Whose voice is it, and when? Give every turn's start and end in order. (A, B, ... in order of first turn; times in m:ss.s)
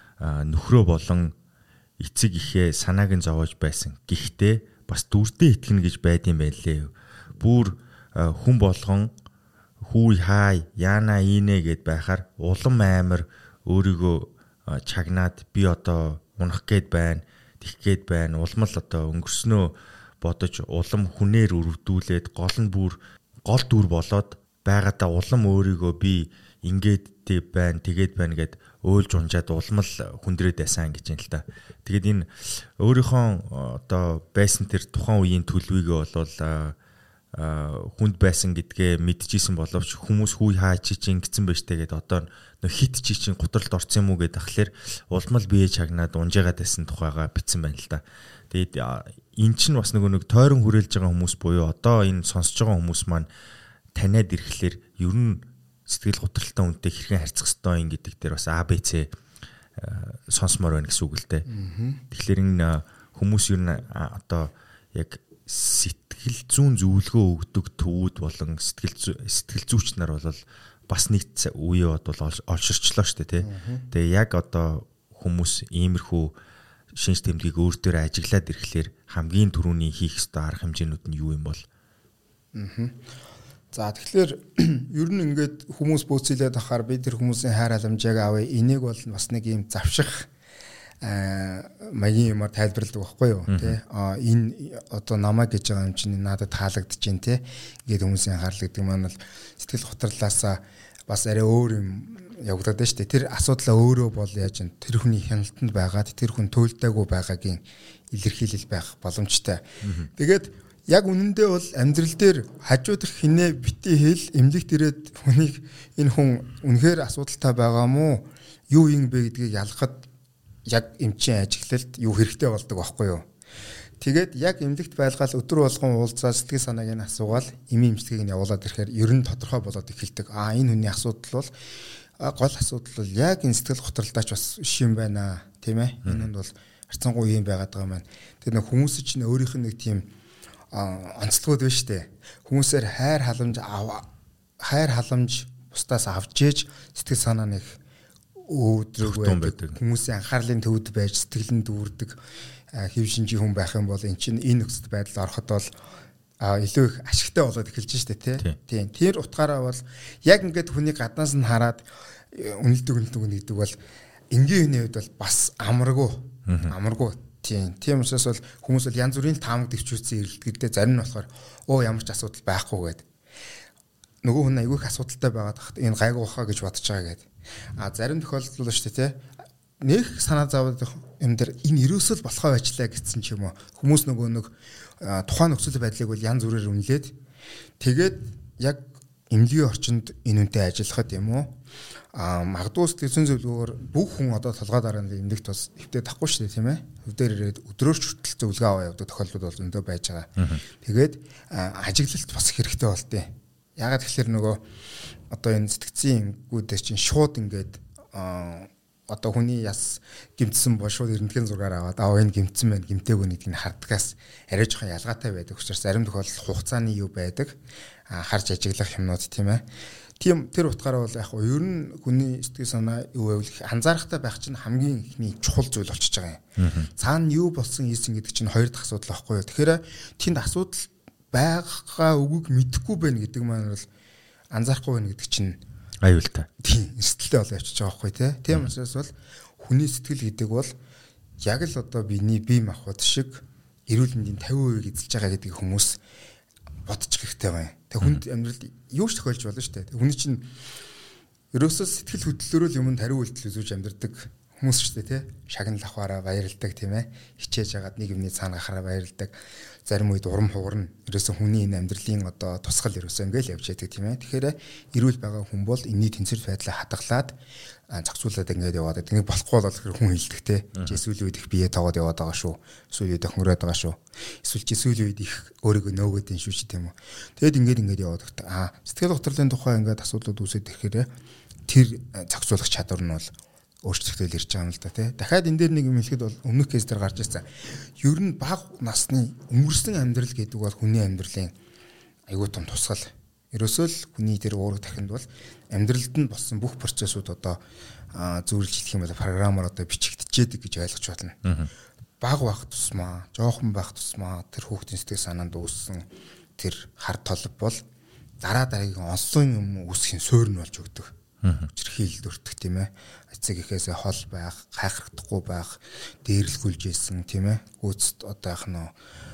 0:00.2-0:01.3 A
0:02.0-0:09.1 A
0:09.8-0:36.8 A
0:37.3-0:53.3 A
0:54.0-0:59.1 A
0:59.8-1:01.5 A
1:01.5-1:02.0 B
1:02.1-1:16.4 A
1:13.4-1:13.9 B
1:16.9-1:21.6 A
1:22.5-1:23.0 B
1:23.7-1:30.3 B
1:31.0-2:00.1 B
1:33.5-1:33.8 A
1:49.8-1:50.1 A
2:00.7-2:03.2 B
2:04.0-2:11.5 B
2:12.2-2:20.1 B
2:20.7-2:24.1 B
2:24.6-2:27.8 B
2:28.4-2:32.2 B
2:29.0-2:29.8 A
2:32.7-2:35.7 B
2:36.4-2:43.8 B
2:44.3-2:53.0 B
2:46.5-2:46.7 A
2:54.2-2:59.2 B
2:59.8-3:07.2 B
3:07.8-3:11.6 B
3:12.1-3:24.6 B
3:25.3-3:37.6 B
3:38.1-3:39.6 B
3:40.2-3:53.9 B
3:46.6-3:46.9 A
3:54.5-3:55.6 B
3:56.0-3:56.5 A
3:56.6-4:00.7 B
4:01.4-4:06.0 B
4:06.9-4:10.5 B
4:11.5-4:27.4 B
4:27.9-4:41.1 B
4:41.7-4:43.3 B
4:43.8-4:47.5 B
4:48.0-4:51.5 B
4:52.3-4:57.6 B
4:58.1-5:01.4 B
5:01.4-5:01.7 A
5:02.2-5:06.1 B
5:06.6-5:07.8 B
5:08.4-5:11.1 B
5:11.4-5:11.7 A
5:11.7-5:18.9 B